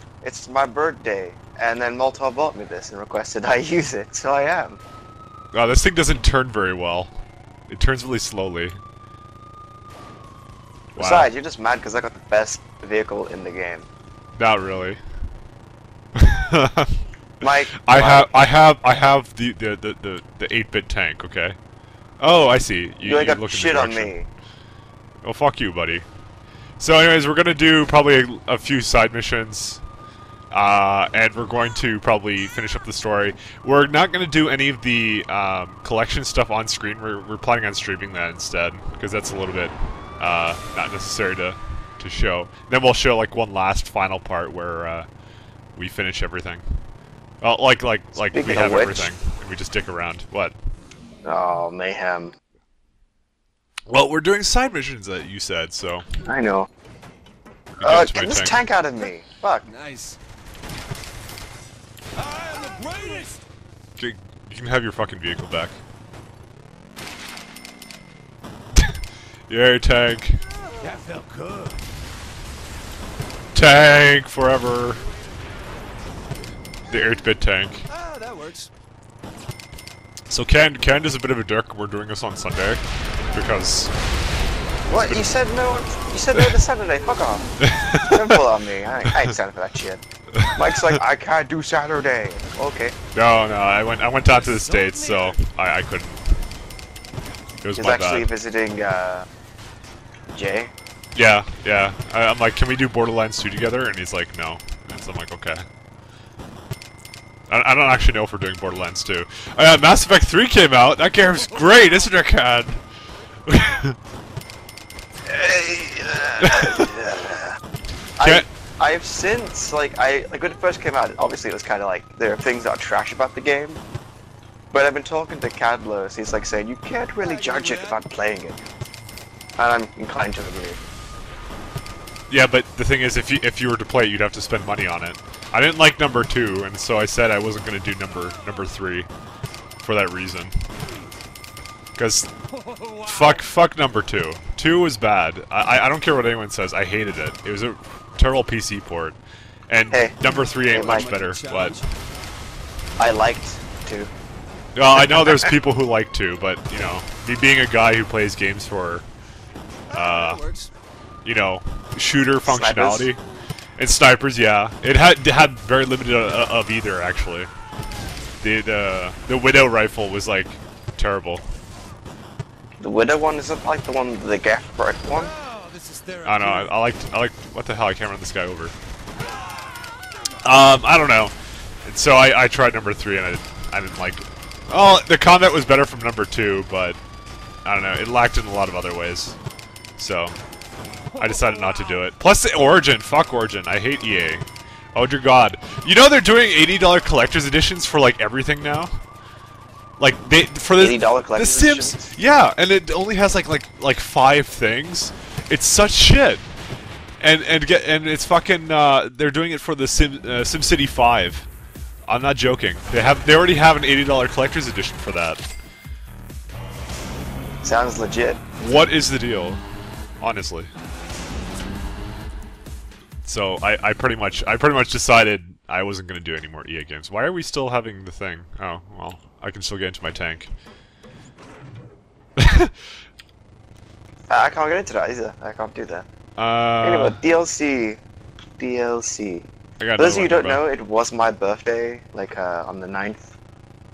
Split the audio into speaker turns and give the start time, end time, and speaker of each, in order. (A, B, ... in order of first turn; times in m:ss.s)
0:00.2-0:04.8 A
0:05.5-0:07.1 B
0:07.7-0:08.8 B
0:11.0-0:11.3 B
0:11.0-0:13.9 A
0:14.4-0:15.0 B
0:16.2-0:17.0 B
0:17.4-0:18.3 A
0:17.7-0:21.6 B
0:22.2-0:24.2 B
0:23.0-0:24.3 A
0:25.2-0:26.1 B
0:26.8-0:29.8 B
0:30.5-0:45.1 B
0:45.8-0:46.6 B
0:47.4-0:50.6 B
0:48.3-0:49.1 A
0:51.2-0:52.3 A
0:53.9-0:56.1 B
0:56.2-0:56.7 A
0:57.8-0:58.6 B
0:57.8-0:59.7 A
0:59.6-1:00.2 C
1:02.1-1:03.4 C
1:04.0-1:05.8 B
1:09.5-1:10.4 B
1:10.8-1:11.9 C
1:13.5-1:15.0 B
1:15.0-1:15.9 C
1:16.9-1:17.9 B
1:17.9-1:18.7 C
1:20.3-1:23.9 B
1:24.9-1:30.0 A
1:25.0-1:25.3 B
1:27.6-1:28.4 B
1:30.3-1:31.0 B
1:30.5-1:33.0 A
1:33.1-1:36.2 B
1:34.2-1:35.4 C
1:37.6-1:38.3 B
1:37.8-1:39.3 A
1:40.3-1:40.7 A
1:41.2-1:45.7 B
1:47.5-1:52.8 B
1:51.4-1:52.1 C
1:53.5-1:54.0 B
1:55.3-1:57.6 A
1:56.4-1:57.0 B
1:58.2-2:03.8 A
1:58.2-1:58.5 B
2:04.7-2:08.6 A
2:07.2-2:08.0 C
2:09.6-2:10.8 A
2:12.3-2:19.1 B
2:19.8-2:20.6 B
2:22.0-2:22.3 B
2:22.5-2:23.5 C
2:23.0-2:31.8 B
2:30.2-2:31.9 C
2:30.7-2:31.1 A
2:33.0-2:34.1 A
2:34.8-2:39.1 B
2:35.2-2:35.4 A
2:39.9-2:40.7 C
2:39.9-2:40.4 B
2:41.2-2:43.2 B
2:42.4-2:43.1 A
2:43.8-2:47.5 B
2:48.4-2:51.4 B
2:52.8-2:55.3 A
2:55.1-2:56.8 C
2:56.2-2:58.8 B
3:00.4-3:07.0 B
3:07.6-3:09.4 B
3:10.0-3:10.4 B
3:11.1-3:12.0 C
3:11.2-3:18.9 B
3:20.0-3:26.4 B
3:20.8-3:22.2 A
3:27.2-3:31.5 B
3:32.1-3:35.4 B
3:37.6-3:38.4 A
3:38.6-3:39.6 B
3:40.2-3:40.7 B
3:43.2-3:50.5 B
3:52.4-3:52.9 B
3:54.3-3:56.1 A
3:56.4-3:57.2 B
3:56.8-3:58.0 A
3:58.6-4:03.3 A
3:59.8-4:00.6 B